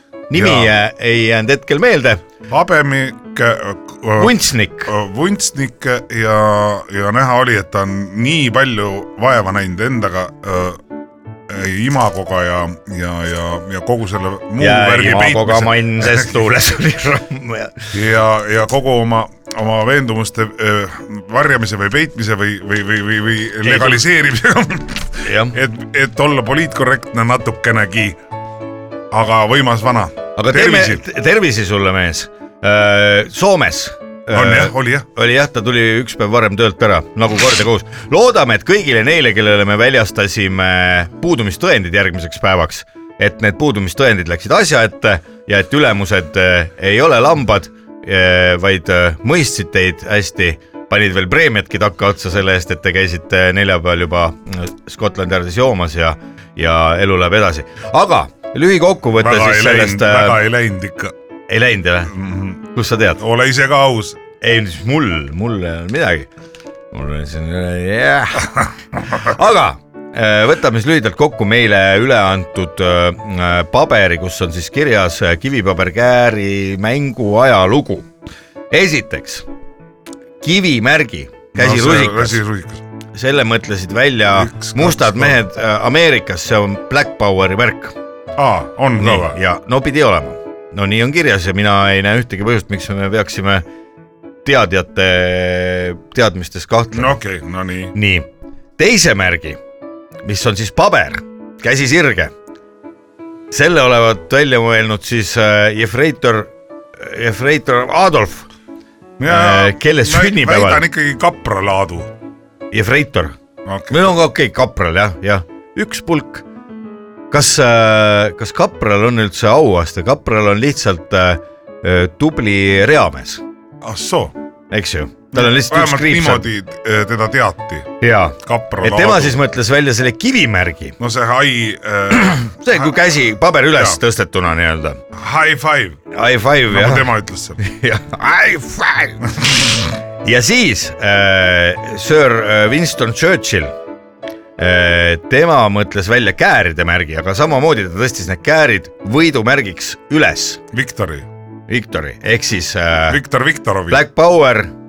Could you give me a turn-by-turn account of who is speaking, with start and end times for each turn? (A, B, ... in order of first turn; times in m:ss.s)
0:00.3-0:02.2 A
0:00.3-0:00.7 B
0:02.5-0:10.8 B
0:04.2-0:04.9 A
0:11.5-0:16.3 B
0:14.6-0:17.9 A
0:17.9-0:28.2 B
0:23.6-0:24.0 A
0:25.2-0:25.6 A
0:29.1-0:31.0 B
0:30.4-1:00.4 A
0:34.3-0:35.1 B
0:59.2-1:01.1 B
1:01.5-1:02.1 A
1:02.1-1:02.6 B
1:02.7-1:03.2 A
1:03.2-1:04.2 B
1:04.4-1:06.3 A
1:06.9-1:18.1 A
1:18.7-1:19.4 A
1:20.4-1:22.4 A
1:21.5-1:22.8 B
1:23.1-1:27.9 A
1:24.3-1:25.4 B
1:28.4-1:29.4 B
1:29.0-1:33.6 A
1:34.4-1:37.2 A
1:36.9-1:37.9 B
1:37.9-1:38.3 A
1:38.8-1:39.6 A
1:40.2-1:42.3 A
1:43.5-1:48.5 A
1:49.2-1:52.1 B
1:49.3-1:50.8 A
1:52.7-1:53.4 A
1:53.6-1:54.1 B
1:53.9-1:56.4 A
1:57.3-2:03.4 A
2:03.8-2:04.3 B
2:04.7-2:06.5 A
2:05.3-2:09.4 B
2:08.0-2:11.0 A
2:11.0-2:12.8 B
2:12.1-2:15.0 A
2:13.7-2:14.0 B
2:15.1-2:16.0 B
2:16.1-2:19.4 A
2:16.7-2:17.6 B
2:20.2-2:23.8 A
2:24.6-2:30.6 A
2:30.7-2:31.3 B
2:31.7-2:33.2 A
2:33.1-2:34.0 B
2:33.9-2:34.7 A